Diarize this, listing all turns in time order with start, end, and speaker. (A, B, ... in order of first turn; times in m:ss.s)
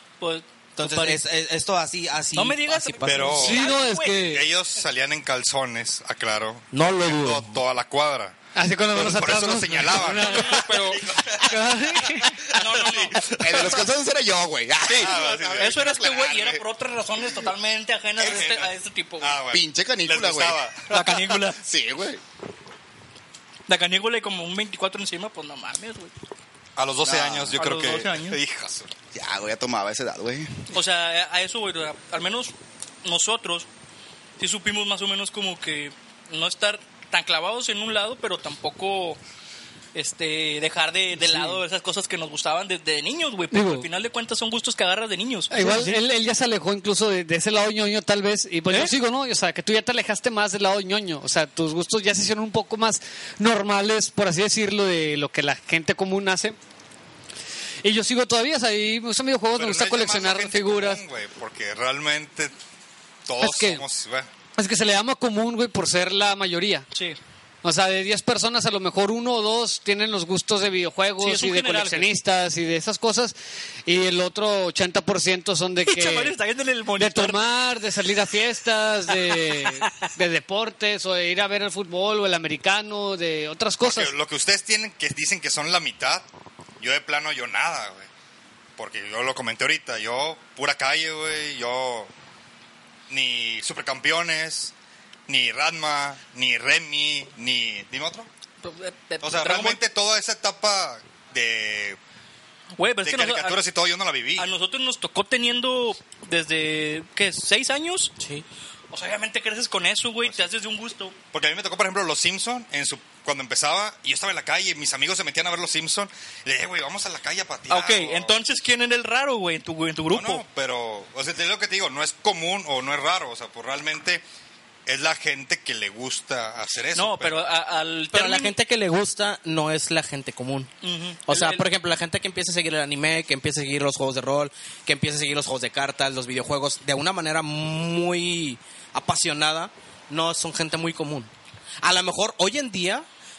0:00.2-0:01.2 A
0:00.8-0:03.6 B
0:02.4-0:04.2 A
0:03.0-0:08.3 C
0:03.4-0:04.4 D
0:06.7-0:07.5 B
0:08.5-0:12.4 D
0:08.9-0:13.8 C
0:10.1-0:11.0 A
0:12.5-0:13.7 A
0:13.4-0:16.6 E
0:14.9-0:16.2 C
0:15.0-0:19.4 A
0:18.2-0:21.3 C
0:19.5-0:20.6 E
0:20.9-0:21.6 A
0:21.6-0:22.2 E
0:23.7-0:26.1 A
0:26.8-0:28.9 C
0:27.0-0:27.6 E
0:27.6-0:28.4 A
0:29.1-0:30.6 E
0:30.7-0:33.7 A
0:34.4-0:39.2 A
0:39.9-0:45.9 A
0:41.2-0:41.5 D
0:43.5-0:43.9 D
0:45.5-0:56.6 D
0:45.6-0:45.9 B
0:57.8-1:01.0 D
0:59.5-1:02.5 C
1:03.2-1:04.3 C
1:03.4-1:03.8 D
1:04.6-1:06.8 D
1:07.6-1:13.3 D
1:11.2-1:12.1 A
1:13.8-1:16.4 D
1:15.8-1:17.4 A
1:17.0-1:24.1 D
1:19.1-1:20.1 A
1:23.8-1:26.2 C
1:26.8-1:28.1 C
1:28.8-1:32.1 C
1:33.1-1:34.7 C
1:35.3-1:38.3 C
1:38.6-1:39.8 A
1:39.2-1:42.0 C
1:42.8-1:43.6 A
1:43.0-1:44.5 C
1:44.4-1:48.1 A
1:48.2-1:48.4 B
1:48.9-1:51.1 A
1:51.3-1:58.4 C
1:57.7-2:00.4 A
2:00.1-2:04.2 C
2:04.8-2:07.4 C
2:06.9-2:08.5 A
2:08.1-2:10.7 B
2:10.8-2:11.6 A
2:11.3-2:21.3 B
2:21.8-2:23.0 B